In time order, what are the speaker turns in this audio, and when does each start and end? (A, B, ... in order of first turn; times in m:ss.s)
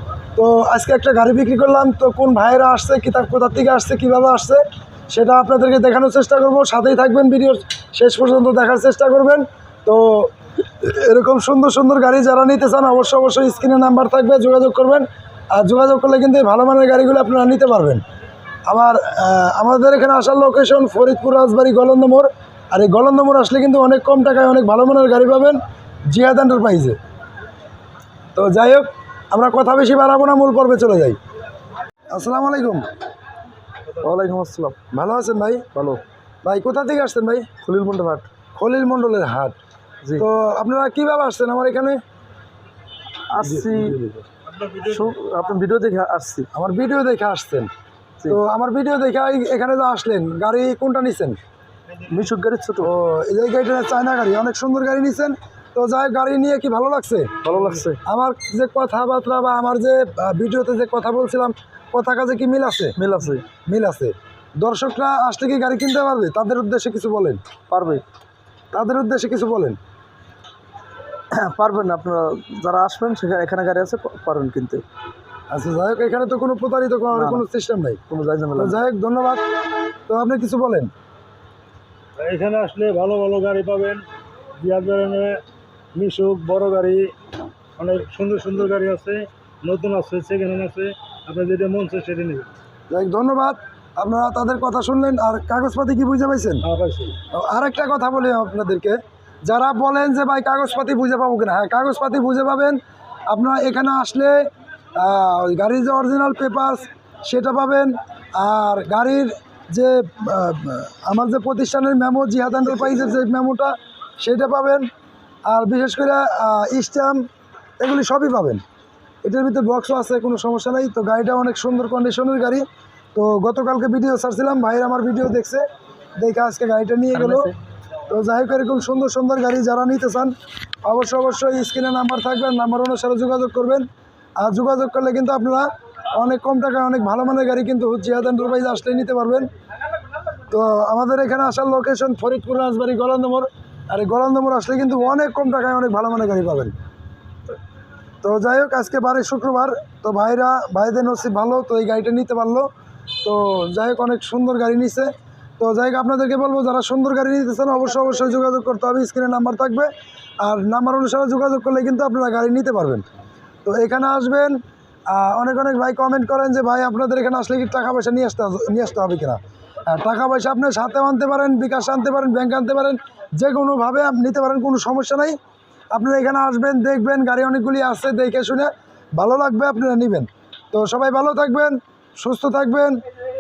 0:00.4-0:18.0 A
0:18.7-0:27.0 A
0:28.4-0:31.2 A
0:32.1-0:32.9 A
0:34.0-0:34.8 B
0:34.9-0:35.6 A
0:35.7-0:36.0 B
0:36.4-0:37.5 A
0:37.6-0:38.3 B
0:38.5-0:39.6 A
0:40.2-0:42.0 A
0:43.3-0:44.0 B
0:43.4-0:44.2 A
0:44.4-0:45.1 C
0:44.8-0:46.5 B
0:46.5-0:47.7 A
0:48.3-0:51.4 A
0:52.1-0:52.9 B
0:52.8-0:57.3 A
0:57.4-0:58.0 B
0:58.0-1:03.0 A
1:03.0-1:03.4 B
1:03.7-1:07.4 A
1:07.7-1:08.0 B
1:08.7-1:09.8 A
1:11.3-1:14.8 B
1:15.5-1:18.0 A
1:17.1-1:17.4 B
1:18.1-1:18.8 B
1:18.6-1:19.4 A
1:20.1-1:20.9 A
1:22.2-1:24.0 C
1:24.6-1:25.4 C
1:25.9-1:27.1 C
1:27.8-1:32.5 C
1:32.9-1:36.6 A
1:36.6-1:37.2 C
1:37.3-1:54.9 A
1:55.4-1:57.2 A
1:57.8-1:58.6 A
1:59.2-2:05.6 A
2:06.2-2:07.5 A
2:07.1-2:07.6 B
2:08.1-2:10.3 A
2:10.8-2:13.9 A
2:14.4-2:19.5 A
2:20.5-2:26.8 A
2:28.2-2:32.7 A
2:33.2-2:39.9 A
2:40.4-2:43.0 A
2:43.6-2:44.6 A
2:45.1-2:55.4 A
2:55.9-3:03.0 A